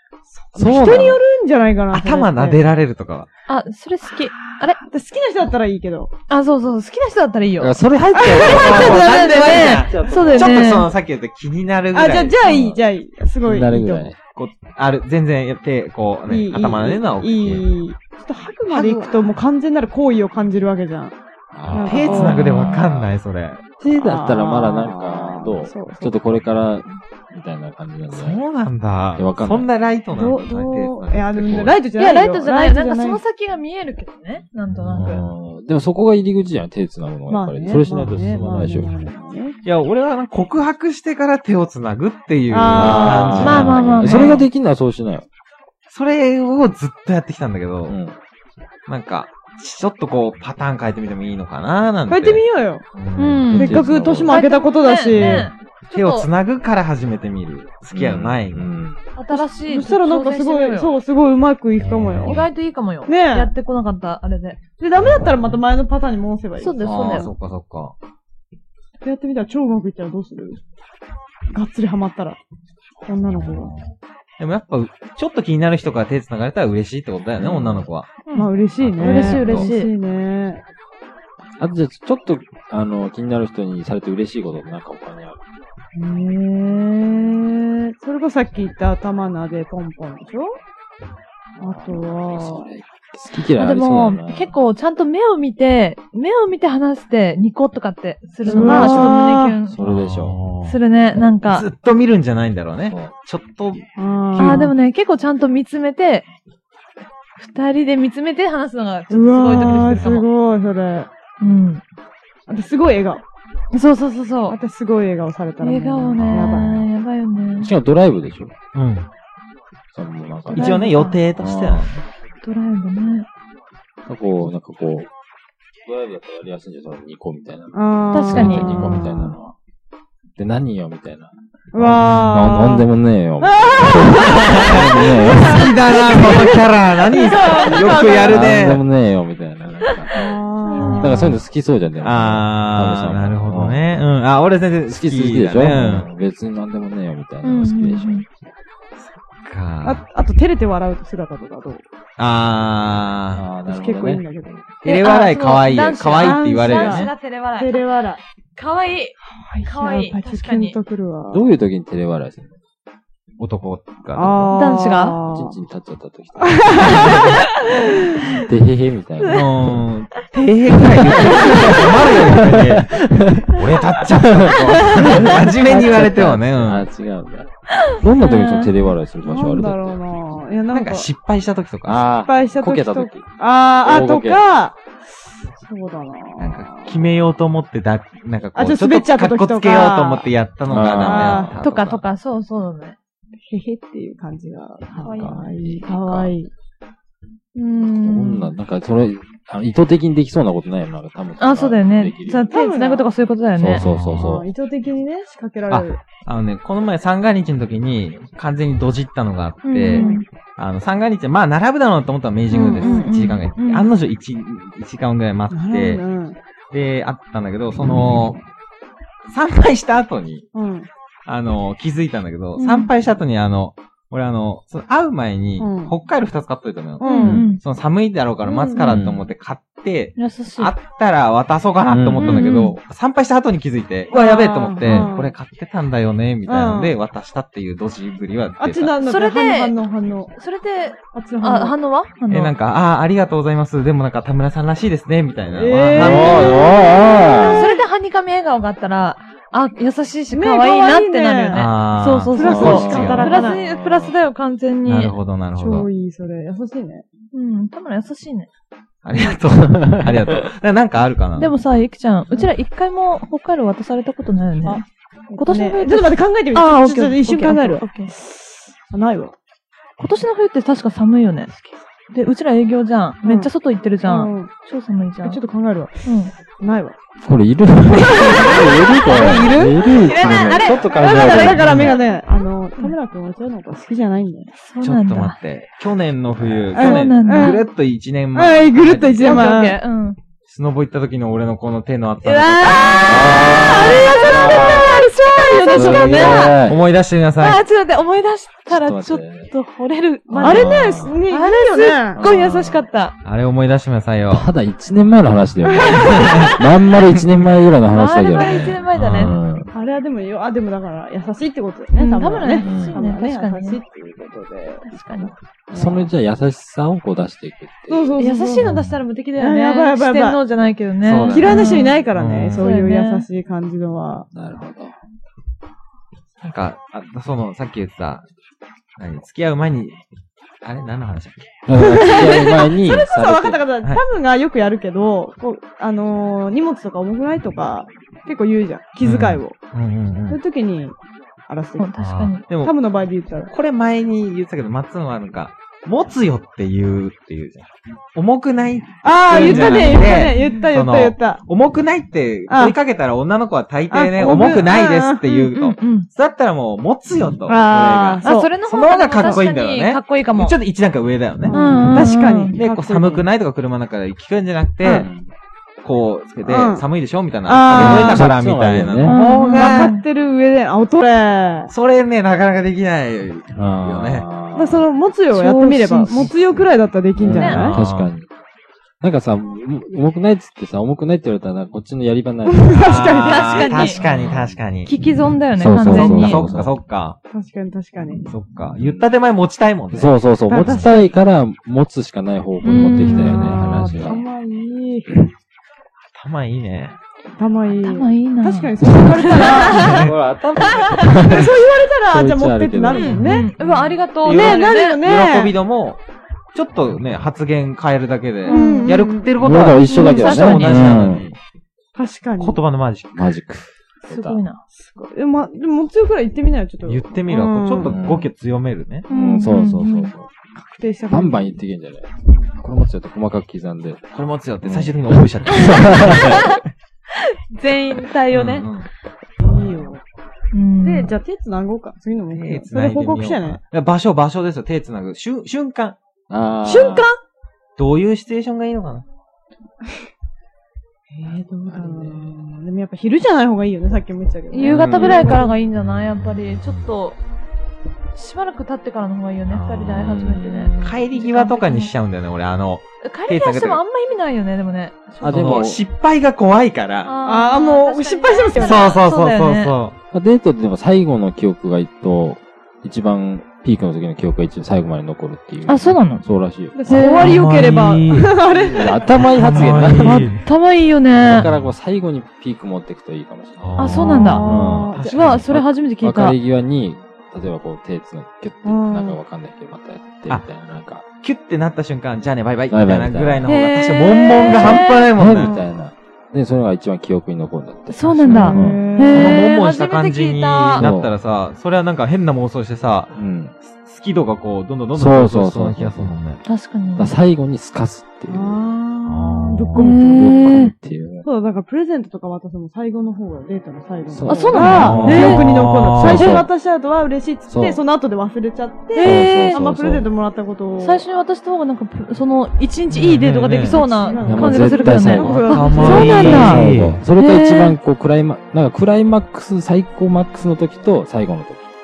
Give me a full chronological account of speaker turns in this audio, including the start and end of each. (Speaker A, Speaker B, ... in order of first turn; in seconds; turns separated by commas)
Speaker A: 0.4-2.6, Speaker B: 0.6-1.2, Speaker C: 1.9-3.3, Speaker D: 3.5-4.8, Speaker A: 4.8-6.1, Speaker D: 6.3-10.9, Speaker B: 7.6-10.9, Speaker A: 8.2-9.0, Speaker C: 8.4-12.4, Speaker A: 11.9-14.1, Speaker B: 12.4-12.8, Speaker B: 13.4-14.2, Speaker C: 14.4-17.7, Speaker A: 16.3-21.2, Speaker C: 18.7-19.3, Speaker B: 21.5-23.1, Speaker C: 21.7-23.6, Speaker A: 21.7-22.4, Speaker B: 23.8-28.4, Speaker A: 24.0-26.2, Speaker C: 28.1-31.8, Speaker B: 29.2-29.7, Speaker A: 30.1-33.2, Speaker D: 32.0-35.2, Speaker C: 34.7-35.3, Speaker B: 34.9-38.9, Speaker A: 37.3-39.6, Speaker C: 39.6-44.5, Speaker A: 42.5-43.7, Speaker B: 42.7-45.2, Speaker D: 43.4-44.4, Speaker C: 45.9-48.0, Speaker B: 47.9-48.2, Speaker C: 48.9-53.5, Speaker A: 52.1-52.9, Speaker D: 53.2-56.3, Speaker B: 53.5-54.4, Speaker A: 53.5-55.5, Speaker C: 55.1-58.6, Speaker B: 57.9-59.0, Speaker D: 59.2-61.0, Speaker A: 59.3-62.5, Speaker C: 61.8-62.4, Speaker D: 62.2-64.6, Speaker A: 63.1-63.5, Speaker A: 64.8-67.3, Speaker C: 65.0-65.6, Speaker D: 66.6-67.3, Speaker B: 66.8-67.2, Speaker C: 66.9-68.0, Speaker A: 69.0-70.6, Speaker A: 71.5-72.4, Speaker A: 73.0-73.7, Speaker C: 73.3-78.1, Speaker B: 77.4-77.9, Speaker D: 78.3-79.9, Speaker A: 78.3-80.6, Speaker C: 78.8-79.7, Speaker B: 81.6-85.4, Speaker A: 86.0-90.6, Speaker B: 91.6-94.6, Speaker A: 91.6-92.7, Speaker D: 93.5-99.8, Speaker A: 98.5-99.6, Speaker B: 98.5-99.2, Speaker C: 98.6-98.9, Speaker B: 99.7-100.4, Speaker C: 99.8-100.8, Speaker D: 100.7-101.7, Speaker C: 101.4-104.7, Speaker B: 102.8-103.1, Speaker A: 104.0-104.7, Speaker D: 104.4-106.3, Speaker D: 107.4-110.3, Speaker A: 109.1-111.1, Speaker C: 109.5-110.1, Speaker D: 111.4-111.8, Speaker A: 112.5-113.2, Speaker D: 113.7-114.6, Speaker A: 114.5-116.9, Speaker D: 115.6-117.7, Speaker C: 116.2-116.6, Speaker B: 117.6-118.5, Speaker C: 118.7-119.1, Speaker B: 119.9-121.9, Speaker C: 120.5-122.0, Speaker D: 120.5-121.2, Speaker D: 122.4-123.3, Speaker B: 124.1-125.1, Speaker B: 125.8-129.5, Speaker A: 127.7-129.4, Speaker D: 128.1-129.0, Speaker B: 130.4-136.5, Speaker A: 131.7-132.9, Speaker A: 133.4-138.5, Speaker C: 134.3-138.8, Speaker B: 138.2-140.2, Speaker A: 140.1-141.4, Speaker D: 140.7-141.3, Speaker B: 141.0-143.8, Speaker C: 142.0-146.1, Speaker B: 144.9-148.3, Speaker D: 147.4-148.2, Speaker C: 149.0-150.0, Speaker A: 149.8-151.8, Speaker C: 152.2-153.4, Speaker B: 153.3-154.2, Speaker A: 153.7-154.7, Speaker C: 154.8-157.1, Speaker D: 154.8-157.9, Speaker A: 156.2-158.2, Speaker D: 158.6-160.8, Speaker A: 159.3-161.5, Speaker B: 161.3-162.5, Speaker C: 163.4-164.6, Speaker A: 164.2-165.6, Speaker D: 164.5-165.2, Speaker B: 165.3-169.8, Speaker A: 166.4-168.4, Speaker D: 167.0-167.8, Speaker D: 169.2-169.5, Speaker C: 169.3-176.9, Speaker B: 171.0-180.0, Speaker D: 177.8-178.7, Speaker A: 179.2-181.1, Speaker C: 180.7-182.1, Speaker B: 181.9-183.3, Speaker A: 182.2-184.8, Speaker B: 183.8-184.4, Speaker A: 185.6-187.1, Speaker C: 186.4-192.1, Speaker A: 188.6-190.3, Speaker B: 190.7-191.6, Speaker A: 191.1-191.6, Speaker D: 191.6-193.0, Speaker A: 193.5-196.5, Speaker B: 195.0-196.3, Speaker D: 195.0-195.3, Speaker D: 197.6-198.5, Speaker B: 198.0-202.5, Speaker D: 201.4-203.8, Speaker A: 202.5-203.1, Speaker B: 203.6-204.5, Speaker C: 203.8-204.3, Speaker A: 204.2-206.0, Speaker C: 205.7-216.0, Speaker D: 209.7-210.2, Speaker A: 209.9-210.2, Speaker A: 212.5-213.1, Speaker D: 212.5-213.9, Speaker A: 215.5-216.4, Speaker C: 216.7-218.4, Speaker C: 219.3-220.5, Speaker A: 220.5-220.9, Speaker C: 221.3-238.9, Speaker D: 222.6-222.9, Speaker A: 225.6-225.9, Speaker A: 227.0-227.5, Speaker D: 227.0-227.6, Speaker A: 228.4-228.9, Speaker B: 228.8-229.3, Speaker D: 230.2-230.7, Speaker B: 231.9-232.4, Speaker D: 232.2-232.8, Speaker A: 234.1-235.3, Speaker B: 234.8-235.1, Speaker A: 236.5-236.9, Speaker A: 238.6-240.3, Speaker D: 239.0-239.7, Speaker D: 240.4-242.5, Speaker A: 241.1-241.8, Speaker C: 242.3-246.6, Speaker A: 245.5-247.8, Speaker B: 245.9-247.7, Speaker D: 247.1-255.2, Speaker A: 250.3-251.7, Speaker C: 251.5-253.5, Speaker A: 252.3-253.6, Speaker B: 252.4-254.2, Speaker C: 254.9-255.9, Speaker A: 255.6-257.1, Speaker D: 257.3-258.5, Speaker C: 259.1-261.6, Speaker B: 259.6-260.2, Speaker D: 261.4-268.1, Speaker A: 265.4-269.3, Speaker D: 270.0-275.4, Speaker A: 273.2-273.5, Speaker A: 274.0-274.5, Speaker A: 275.2-276.0, Speaker D: 276.0-276.3, Speaker A: 276.6-277.0, Speaker B: 277.2-281.8, Speaker A: 278.0-284.5, Speaker D: 279.1-282.2, Speaker C: 279.2-279.8, Speaker C: 281.6-281.9, Speaker D: 284.6-285.4, Speaker C: 284.8-289.5, Speaker B: 286.4-286.7, Speaker D: 286.7-287.6, Speaker A: 286.7-287.6, Speaker A: 288.4-289.8, Speaker D: 289.2-290.2, Speaker C: 290.5-293.3, Speaker D: 292.2-296.6, Speaker A: 292.7-296.6, Speaker B: 293.1-295.1, Speaker B: 295.7-296.8, Speaker C: 296.7-297.6, Speaker D: 297.4-303.1, Speaker B: 298.7-299.5, Speaker C: 300.3-300.6, Speaker B: 300.3-301.2, Speaker A: 300.4-302.2, Speaker B: 302.2-302.8, Speaker C: 303.2-304.5, Speaker B: 304.3-309.7, Speaker A: 305.7-306.4, Speaker C: 306.0-306.6, Speaker D: 307.9-309.4, Speaker A: 308.4-308.6, Speaker C: 308.9-309.4, Speaker A: 309.7-316.1, Speaker D: 311.9-313.8, Speaker B: 312.6-313.0, Speaker D: 314.9-315.3, Speaker B: 315.7-318.2, Speaker A: 317.9-318.8, Speaker D: 318.2-322.0, Speaker C: 318.6-318.9, Speaker A: 319.4-320.4, Speaker C: 321.0-322.7, Speaker A: 321.3-324.3, Speaker D: 322.6-323.3, Speaker B: 324.3-324.9, Speaker C: 326.4-328.3, Speaker C: 329.0-330.0, Speaker C: 330.6-331.5, Speaker B: 331.7-333.6, Speaker A: 331.7-339.6, Speaker C: 339.0-340.4, Speaker A: 340.3-341.0, Speaker A: 341.5-341.9, Speaker D: 341.8-342.4, Speaker C: 342.0-342.8, Speaker A: 342.5-343.5, Speaker C: 343.5-365.1, Speaker A: 349.0-351.4, Speaker D: 349.3-350.7, Speaker A: 352.5-352.8, Speaker A: 353.9-355.2, Speaker D: 355.3-356.1, Speaker A: 357.5-358.5, Speaker D: 358.2-360.6, Speaker A: 359.2-359.4, Speaker A: 361.5-363.3, Speaker D: 361.5-362.6, Speaker A: 364.8-365.1, Speaker B: 365.0-365.3, Speaker C: 365.8-369.9, Speaker A: 366.4-366.9, Speaker A: 367.5-368.3, Speaker B: 367.7-369.1, Speaker D: 369.0-370.0, Speaker A: 369.2-371.7, Speaker C: 371.7-374.3, Speaker B: 373.5-374.9, Speaker A: 374.5-377.8, Speaker D: 375.3-376.3, Speaker B: 377.2-378.3, Speaker D: 377.3-377.8, Speaker C: 377.5-378.1, Speaker B: 379.0-383.1, Speaker A: 382.5-384.0, Speaker C: 382.9-384.9, Speaker D: 383.1-384.0, Speaker B: 383.9-384.6, Speaker D: 384.9-386.5, Speaker B: 385.6-386.7, Speaker C: 385.8-387.2, Speaker A: 387.3-388.3, Speaker C: 388.2-390.9, Speaker B: 388.8-389.0, Speaker B: 389.9-394.2, Speaker A: 390.5-391.1, Speaker D: 392.6-393.6, Speaker A: 393.0-395.3, Speaker C: 393.0-394.2, Speaker C: 396.1-397.0, Speaker A: 397.4-400.1, Speaker D: 397.8-400.1, Speaker B: 399.7-404.1, Speaker C: 399.8-400.1, Speaker A: 400.9-403.5, Speaker D: 402.9-405.0, Speaker C: 404.2-406.0, Speaker A: 404.3-405.5, Speaker C: 406.5-411.4, Speaker D: 408.5-408.9, Speaker A: 408.5-409.3, Speaker B: 409.4-411.3, Speaker D: 409.9-411.1, Speaker A: 411.9-412.6, Speaker C: 412.4-413.3, Speaker B: 413.1-414.4, Speaker D: 414.1-414.6, Speaker A: 414.8-417.9, Speaker C: 416.9-419.1, Speaker B: 417.8-418.3, Speaker D: 419.1-420.1, Speaker B: 419.1-420.3, Speaker A: 420.6-421.5, Speaker B: 421.1-426.5, Speaker C: 424.1-426.5, Speaker D: 425.5-426.6, Speaker D: 427.1-428.7, Speaker C: 428.3-428.9, Speaker A: 429.4-430.0, Speaker D: 430.5-431.1, Speaker A: 430.8-433.6, Speaker C: 432.3-436.0, Speaker B: 436.3-437.1, Speaker A: 436.6-437.2, Speaker C: 437.8-439.1, Speaker A: 441.1-445.5, Speaker B: 441.7-442.4, Speaker D: 444.5-447.2, Speaker C: 444.6-445.4, Speaker B: 445.1-445.4, Speaker C: 446.1-446.9, Speaker D: 448.1-451.9, Speaker C: 449.5-450.1, Speaker B: 449.9-451.1, Speaker C: 450.8-453.8, Speaker D: 453.0-455.6, Speaker B: 455.2-455.8, Speaker C: 455.2-457.1, Speaker D: 457.1-459.7, Speaker A: 457.2-459.0, Speaker C: 458.6-459.9, Speaker B: 460.1-467.1, Speaker D: 465.7-466.2, Speaker A: 466.7-469.2, Speaker D: 466.8-467.4, Speaker C: 467.0-468.4, Speaker B: 468.5-470.3, Speaker C: 469.2-470.4, Speaker D: 470.0-471.5, Speaker B: 471.2-481.1, Speaker C: 471.4-471.7, Speaker C: 473.6-475.5, Speaker D: 473.8-474.5, Speaker A: 474.2-475.2, Speaker D: 475.1-476.4, Speaker A: 478.6-479.2, Speaker C: 481.2-485.6, Speaker B: 482.7-483.5, Speaker D: 483.5-485.1, Speaker B: 484.5-488.9, Speaker A: 485.4-485.7, Speaker D: 487.9-490.9, Speaker C: 488.3-496.4, Speaker A: 488.3-489.5, Speaker B: 490.8-491.1, Speaker B: 493.1-493.5, Speaker B: 494.9-496.2, Speaker D: 496.4-497.1, Speaker B: 497.0-498.6, Speaker A: 498.3-500.6, Speaker C: 499.1-499.8, Speaker D: 499.8-500.7, Speaker B: 499.9-501.2, Speaker A: 501.2-511.1, Speaker B: 504.1-506.5, Speaker D: 504.3-505.5, Speaker C: 504.6-506.4, Speaker B: 507.5-507.8, Speaker D: 508.9-509.6, Speaker B: 509.0-510.1, Speaker D: 510.8-517.8, Speaker C: 512.9-513.8, Speaker A: 513.6-516.5, Speaker B: 514.2-521.7, Speaker C: 515.2-517.0